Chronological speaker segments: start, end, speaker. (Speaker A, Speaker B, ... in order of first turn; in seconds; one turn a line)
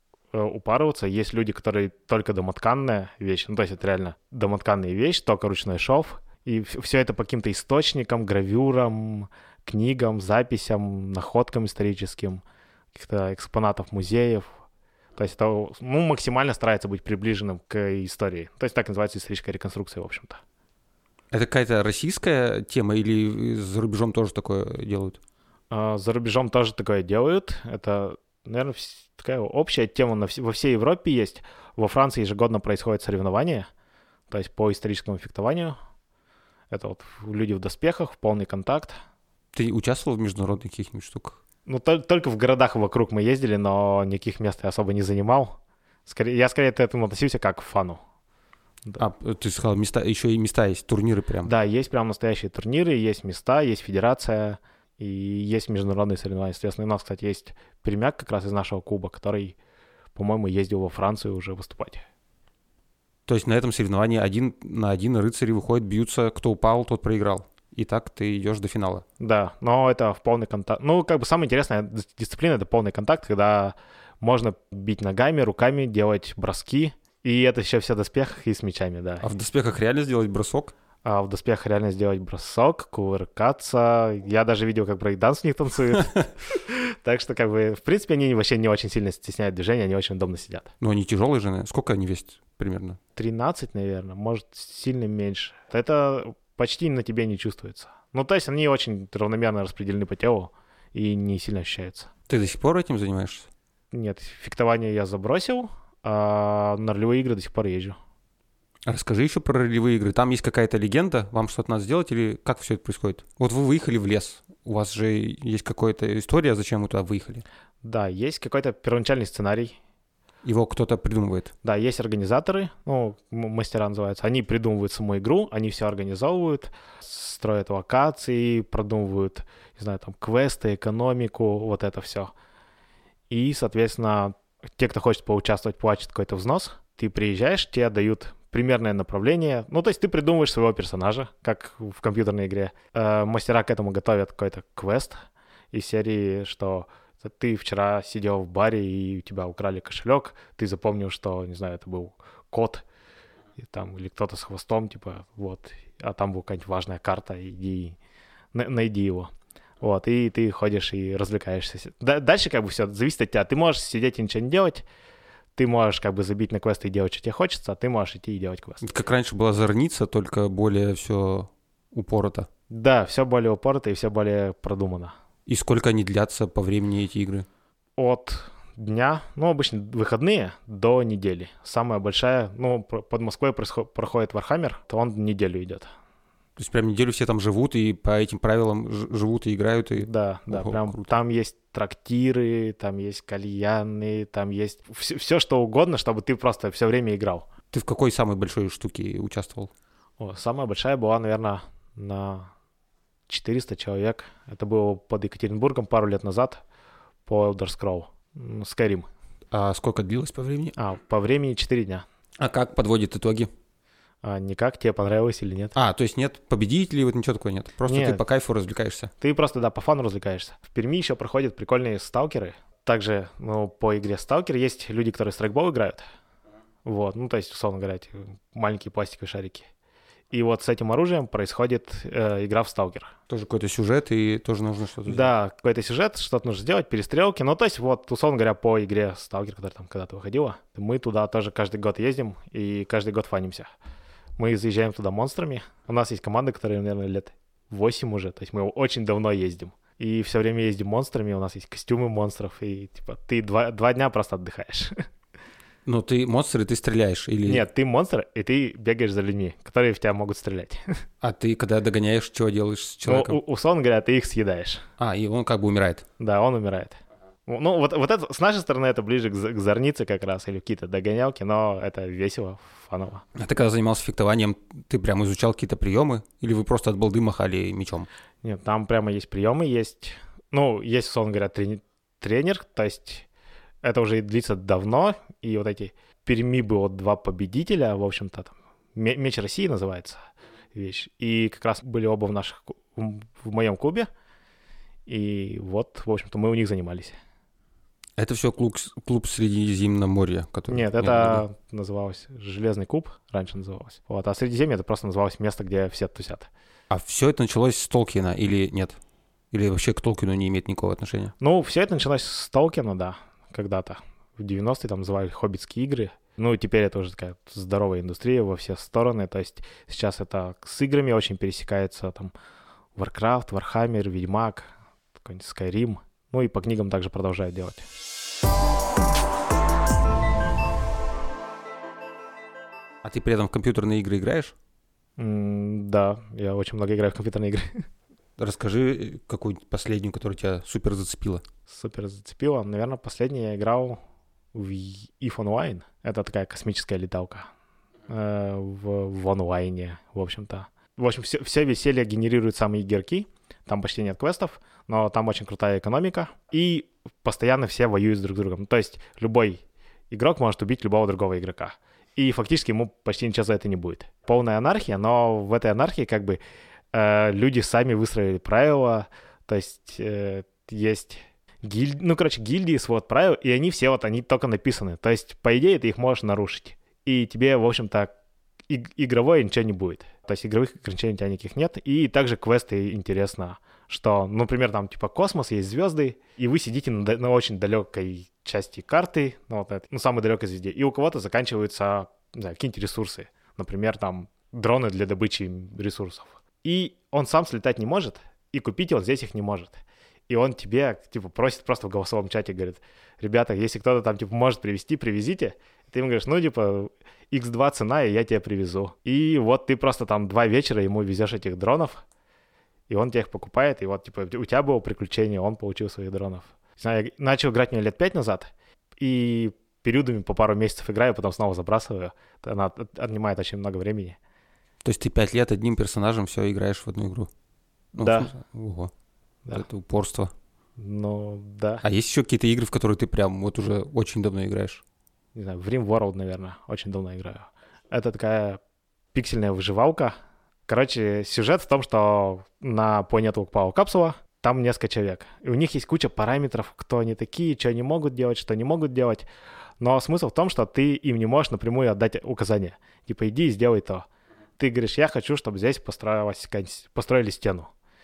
Speaker A: 0.3-12.4
Speaker A: 12.9-14.5
Speaker A: 15.2-20.4
Speaker B: 21.3-25.2
Speaker A: 25.7-33.7
Speaker A: 34.3-35.8
Speaker A: 36.7-39.0
Speaker B: 39.5-41.4
Speaker A: 41.6-45.5
Speaker A: 46.0-48.0
Speaker B: 49.0-51.5
Speaker A: 51.4-59.5
Speaker A: 60.1-62.0
Speaker B: 63.3-69.0
Speaker A: 69.2-79.3
Speaker B: 79.2-80.7
Speaker A: 81.0-90.7
Speaker B: 90.8-93.0
Speaker A: 93.2-102.1
Speaker B: 102.3-103.5
Speaker A: 103.9-108.0
Speaker B: 108.8-117.4
Speaker A: 117.8-119.8
Speaker B: 120.4-121.5
Speaker A: 121.6-132.3
Speaker A: 133.3-145.2
Speaker A: 145.7-152.8
Speaker A: 153.6-157.9
Speaker A: 158.5-159.3
Speaker A: 159.8-164.8
Speaker A: 165.6-168.8
Speaker B: 168.8-172.5
Speaker A: 172.7-175.1
Speaker B: 175.4-177.5
Speaker A: 178.0-185.9
Speaker B: 186.6-191.1
Speaker A: 189.9-197.5
Speaker B: 197.7-199.7
Speaker A: 200.2-202.5
Speaker A: 203.3-206.6
Speaker A: 207.2-209.1
Speaker B: 209.5-210.7
Speaker A: 210.8-212.0
Speaker B: 212.4-213.5
Speaker A: 214.2-215.7
Speaker B: 215.8-219.1
Speaker A: 217.9-218.2
Speaker A: 219.2-226.0
Speaker A: 226.8-229.7
Speaker A: 230.3-233.1
Speaker B: 233.3-235.3
Speaker A: 235.1-243.7
Speaker A: 244.4-254.9
Speaker B: 255.8-257.6
Speaker A: 257.4-260.8
Speaker B: 261.2-263.4
Speaker A: 263.0-264.9
Speaker B: 265.0-266.0
Speaker A: 266.2-273.2
Speaker B: 273.3-278.1
Speaker A: 278.4-283.2
Speaker A: 283.8-290.2
Speaker A: 290.7-294.1
Speaker A: 295.1-297.2
Speaker B: 298.2-301.4
Speaker A: 300.7-306.5
Speaker B: 306.9-309.0
Speaker B: 309.5-311.3
Speaker A: 311.4-322.3
Speaker A: 322.9-327.9
Speaker B: 333.0-334.5
Speaker A: 335.2-337.8
Speaker B: 338.4-341.4
Speaker A: 341.7-344.0
Speaker A: 344.5-347.5
Speaker A: 348.1-366.4
Speaker A: 366.9-378.1
Speaker A: 378.7-412.0
Speaker A: 412.9-424.2
Speaker B: 424.8-427.3
Speaker B: 427.9-428.9
Speaker A: 428.0-428.3
Speaker B: 429.5-430.3
Speaker A: 430.8-431.8
Speaker B: 431.8-434.8
Speaker A: 435.3-438.6
Speaker A: 439.1-440.1
Speaker A: 440.7-449.2
Speaker A: 449.8-454.1
Speaker A: 454.6-457.7